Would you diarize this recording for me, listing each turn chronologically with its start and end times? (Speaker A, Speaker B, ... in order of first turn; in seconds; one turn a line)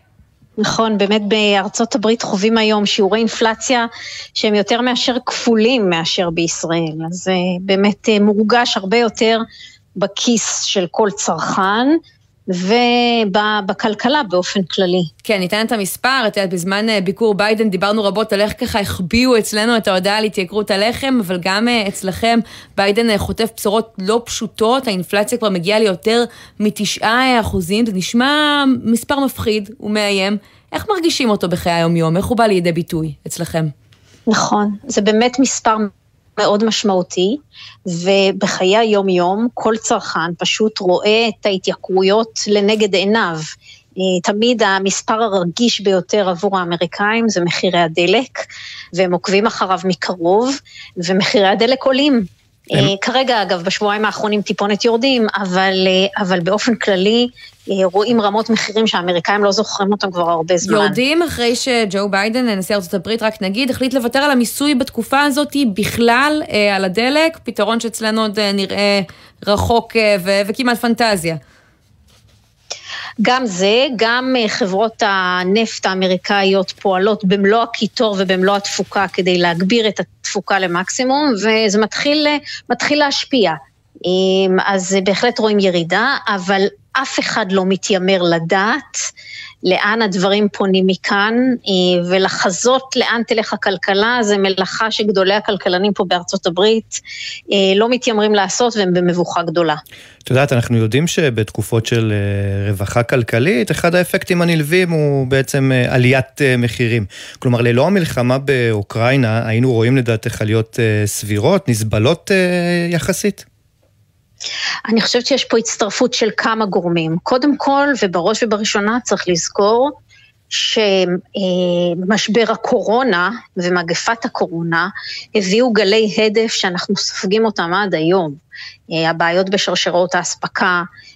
Speaker A: 0.6-9.4
Speaker A: 10.0-12.0
Speaker A: 12.5-15.1
Speaker B: 15.2-33.7
Speaker A: 34.3-61.0
Speaker B: 60.6-71.4
Speaker A: 73.2-89.1
Speaker A: 89.7-99.8
Speaker C: 100.2-113.4
Speaker A: 114.9-119.9
Speaker A: 120.5-128.4
Speaker A: 128.9-130.9